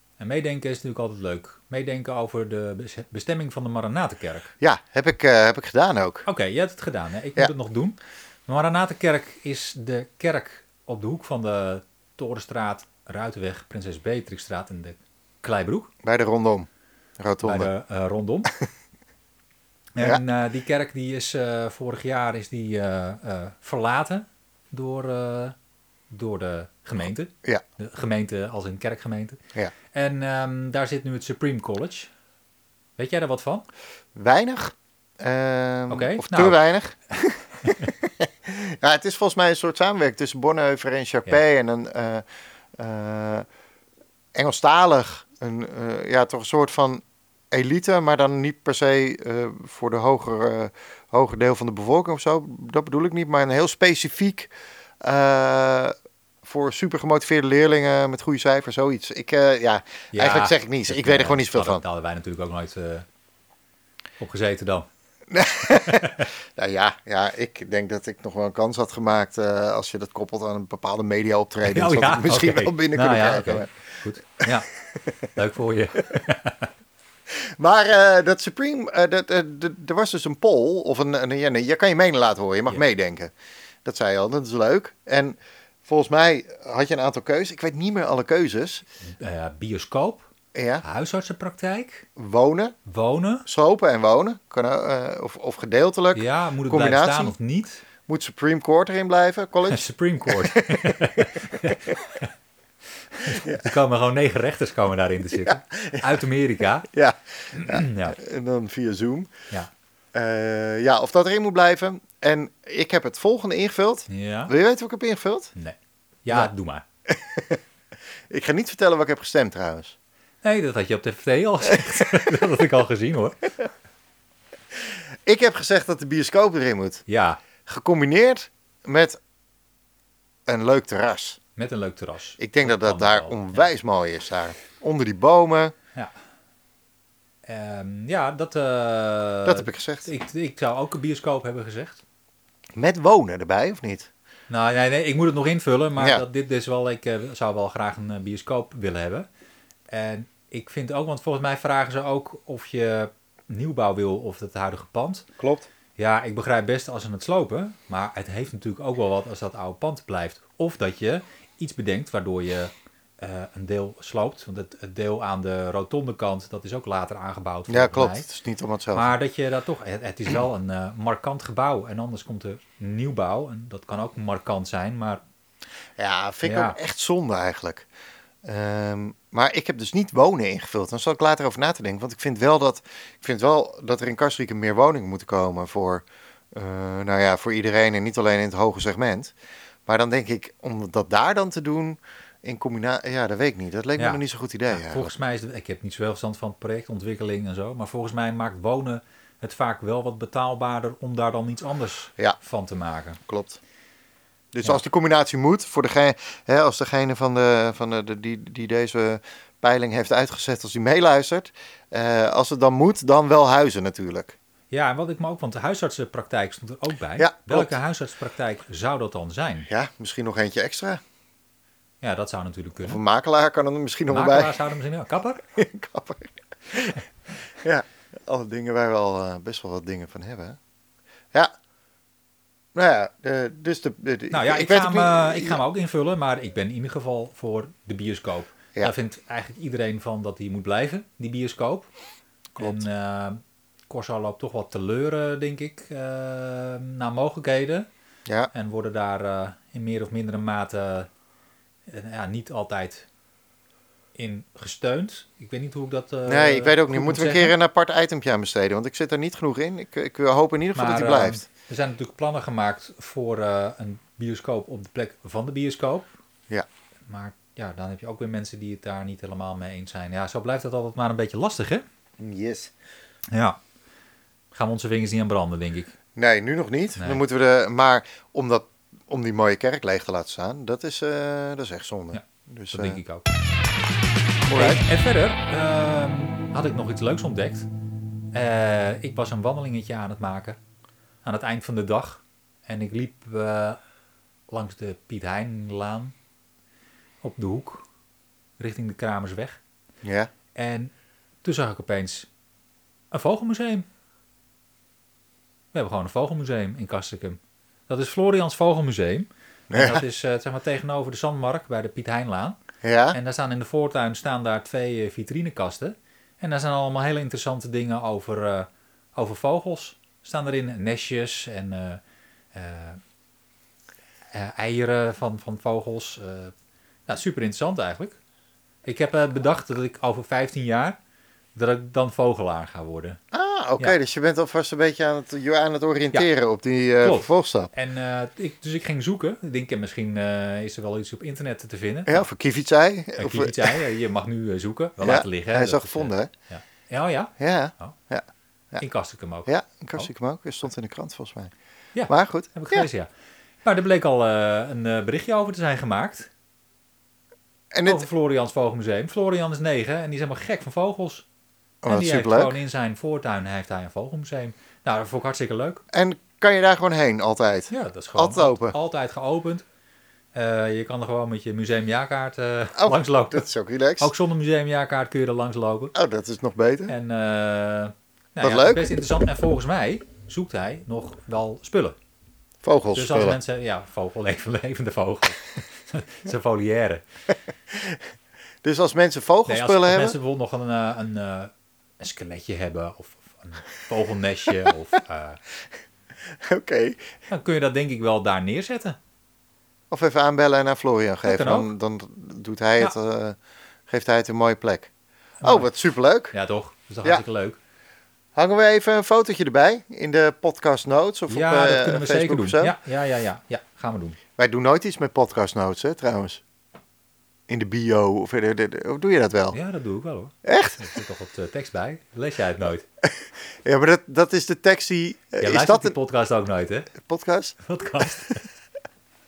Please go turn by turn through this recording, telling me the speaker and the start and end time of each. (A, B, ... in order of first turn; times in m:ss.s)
0:00.2-0:04.5 A
0:04.6-0:06.2 B
0:06.2-0:15.9 A
0:16.0-0:16.7 B
0:17.2-0:17.7 B
0:17.4-0:18.5 A
0:19.9-0:25.5 A
0:26.1-0:29.4 A
0:29.9-0:32.1 A
0:33.0-0:33.6 A
0:34.1-0:42.2 B
0:35.9-0:36.6 A
0:42.8-0:43.5 B
0:44.3-1:01.8 B
1:00.1-1:03.0 A
1:04.2-1:04.9 A
1:05.3-1:13.7 B
1:05.7-1:06.3 A
1:11.6-1:14.7 A
1:15.3-1:16.7 A
1:17.3-1:23.3 B
1:23.8-1:28.8 B
1:29.0-1:30.3 A
1:30.5-1:30.8 B
1:30.8-1:32.1 A
1:32.2-1:32.8 B
1:32.8-1:33.5 A
1:33.4-1:37.3 B
1:36.1-1:37.8 A
1:38.1-1:41.7 B
1:39.7-1:42.3 A
1:43.1-1:46.9 A
1:43.2-1:43.7 B
1:45.3-1:46.1 B
1:46.9-1:49.3 B
1:47.5-1:48.2 A
1:50.1-1:55.5 B
1:54.1-1:54.5 A
1:55.6-1:56.8 A
1:57.1-1:57.6 B
1:58.3-1:59.9 B
2:00.4-2:03.5 A
2:05.2-2:07.0 B
2:07.1-2:07.4 A
2:07.6-2:09.2 B
2:10.5-2:11.4 B
2:11.6-2:13.7 A
2:12.4-2:15.7 B
2:17.4-2:22.0 A
2:19.4-2:20.1 B
2:22.8-2:24.1 B
2:24.5-2:29.3 A
2:26.0-2:26.2 B
2:29.9-2:35.3 A
2:35.4-2:35.7 B
2:36.0-2:48.2 A
2:47.7-2:49.1 B
2:48.9-2:55.2 A
2:56.0-2:57.9 B
2:56.4-2:56.8 A
2:58.4-3:09.3 B
3:09.8-3:15.1 B
3:14.0-3:23.2 A
3:23.3-3:23.6 B
3:24.5-3:34.4 B
3:34.7-3:39.7 A
3:37.2-3:37.7 B
3:39.7-3:41.0 B
3:42.0-3:43.0 A
3:42.8-3:44.6 B
3:44.1-3:45.4 A
3:45.4-3:47.0 B
3:47.5-3:50.6 B
3:52.7-3:55.6 B
3:54.3-4:01.9 A
4:02.6-4:02.8 B
4:02.6-4:07.9 A
4:08.5-4:11.1 A
4:11.9-4:13.0 A
4:14.2-4:17.5 A
4:16.3-4:21.4 B
4:20.7-4:26.1 A
4:27.1-4:31.8 A
4:32.2-4:32.7 B
4:33.3-4:33.6 A
4:34.5-4:35.9 A
4:36.1-4:43.0 B
4:42.1-4:43.3 A
4:44.4-4:44.8 B
4:44.5-4:47.7 A
4:48.3-4:50.6 A
4:51.2-4:53.8 A
4:54.5-4:56.1 A
4:57.2-4:57.8 A
4:58.6-4:59.6 A
5:00.0-5:00.3 B
5:00.5-5:00.9 A
5:01.4-5:02.3 A
5:03.1-5:03.8 A
5:05.7-5:12.6 A
5:09.7-5:10.0 B
5:12.8-5:13.2 B
5:13.1-5:22.0 A
5:22.5-5:23.0 A
5:24.3-5:26.5 A
5:27.1-5:28.2 A
5:28.8-5:31.0 A
5:31.6-5:33.2 A
5:33.3-5:37.7 B
5:37.0-5:42.3 A
5:42.1-5:43.8 B
5:43.2-5:48.0 A
5:45.0-5:46.3 B
5:47.4-5:48.8 B
5:48.8-5:50.1 A
5:49.4-5:51.5 B
5:51.9-5:53.1 A
5:52.1-5:52.9 B
5:53.6-5:56.3 A
5:57.7-5:58.0 B
5:57.8-6:01.2 A
6:01.8-6:02.6 B
6:01.9-6:05.8 A
6:05.9-6:08.7 B
6:07.7-6:09.6 A
6:10.3-6:13.5 A
6:12.8-6:14.1 B
6:14.0-6:15.9 A
6:15.9-6:16.9 B
6:16.9-6:22.0 A
6:18.4-6:19.0 B
6:22.6-6:23.4 B
6:22.9-6:27.0 A
6:27.7-6:28.0 B
6:28.6-6:30.2 B
6:29.5-6:35.4 A
6:36.4-6:37.1 B
6:37.3-6:39.0 A
6:39.9-6:43.4 B
6:41.2-6:41.7 A
6:43.9-6:44.9 B
6:45.4-6:45.7 A
6:45.4-6:46.3 B
6:46.3-6:47.6 A
6:48.4-6:52.7 B
6:51.3-6:54.2 A
6:54.4-6:56.4 B
6:57.5-6:59.6 B
6:59.5-7:02.8 A
7:00.4-7:00.9 B
7:03.0-7:05.9 B
7:05.4-7:06.9 A
7:06.9-7:07.6 B
7:07.6-7:08.4 A